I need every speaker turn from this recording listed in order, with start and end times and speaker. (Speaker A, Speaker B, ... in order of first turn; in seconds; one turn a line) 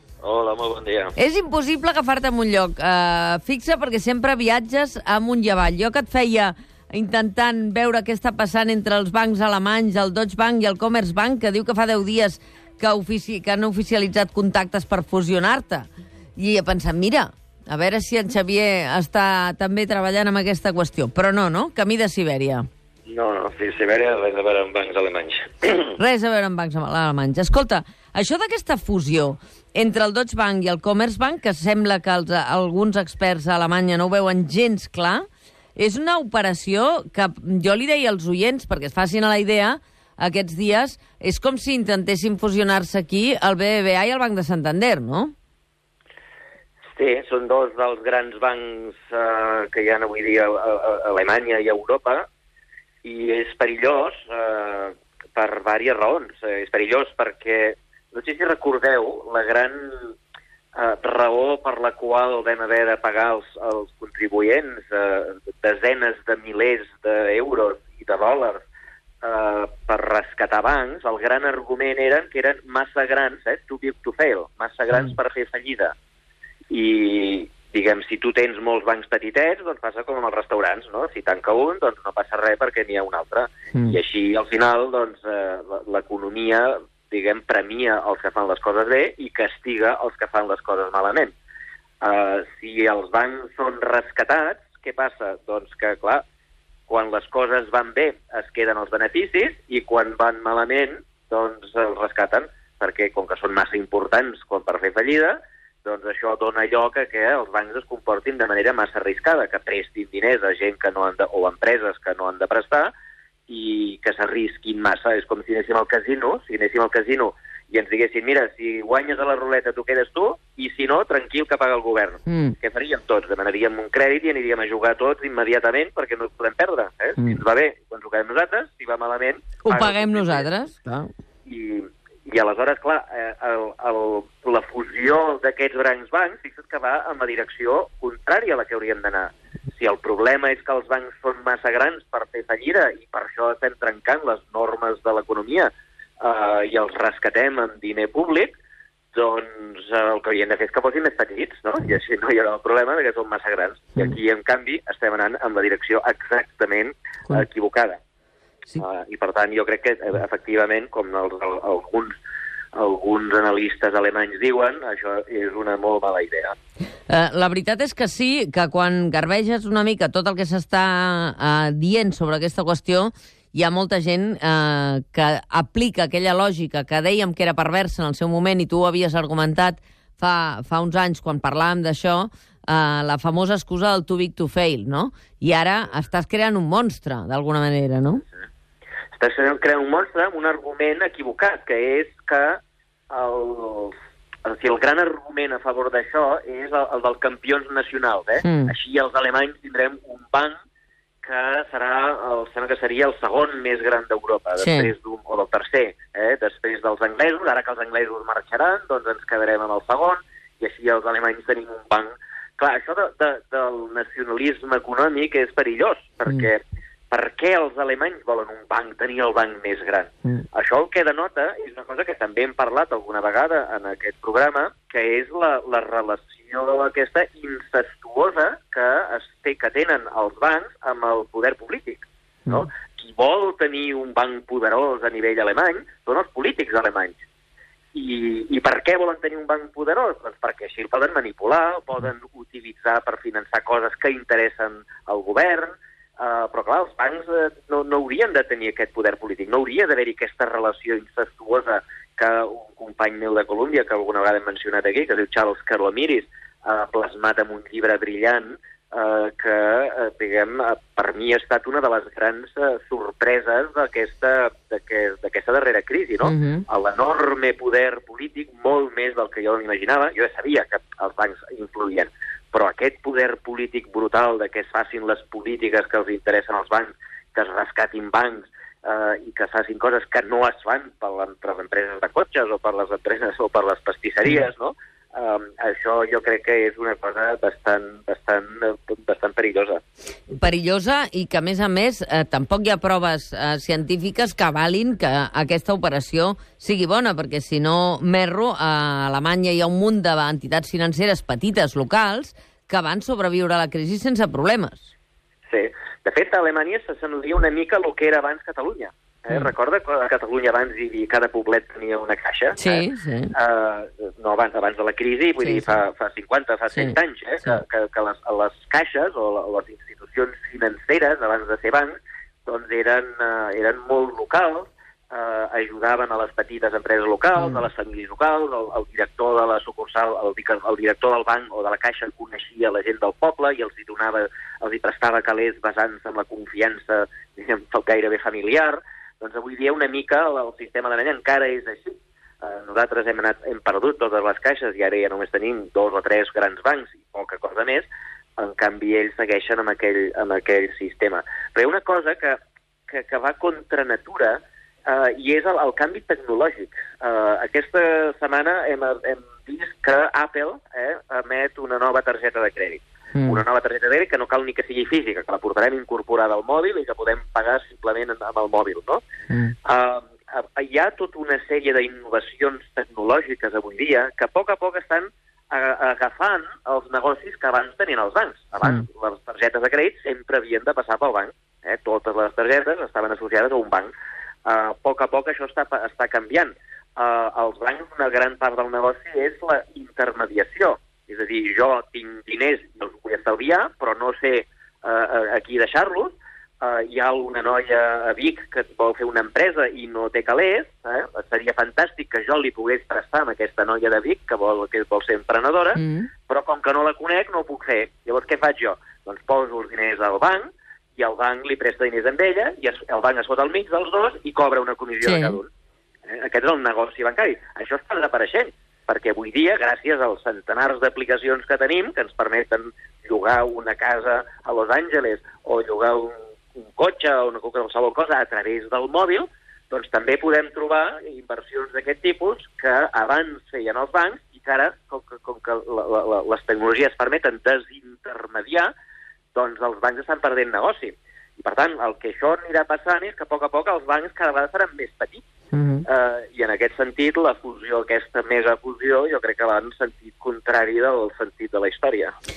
Speaker A: 0.2-1.1
Speaker B: 1.2-22.7
Speaker A: 23.1-26.0
Speaker B: 26.0-45.3
Speaker A: 46.9-52.2
Speaker A: 53.0-60.1
Speaker A: 60.7-68.6
Speaker A: 69.2-75.9
Speaker A: 76.7-91.3
Speaker A: 92.0-96.2
Speaker A: 96.9-112.9
Speaker A: 113.5-130.5
Speaker B: 122.3-122.5
Speaker B: 129.6-131.1
Speaker A: 131.4-148.5
Speaker A: 149.1-158.0
Speaker A: 158.8-162.1
Speaker A: 162.7-166.6
Speaker B: 167.1-188.2
Speaker A: 189.2-193.9
Speaker A: 194.5-200.6
Speaker B: 198.4-198.7
Speaker A: 201.2-237.2
Speaker B: 204.6-204.9
Speaker A: 237.9-289.8
Speaker B: 266.2-266.6
Speaker B: 290.3-304.9
Speaker A: 305.5-369.0
Speaker B: 312.6-313.3
Speaker B: 315.4-315.8
Speaker B: 363.1-363.4
Speaker A: 369.6-383.9
Speaker A: 384.4-415.5
Speaker B: 405.8-406.1
Speaker B: 415.0-415.4
Speaker A: 416.1-438.7
Speaker A: 439.3-445.2
Speaker B: 445.5-445.8
Speaker A: 445.8-452.1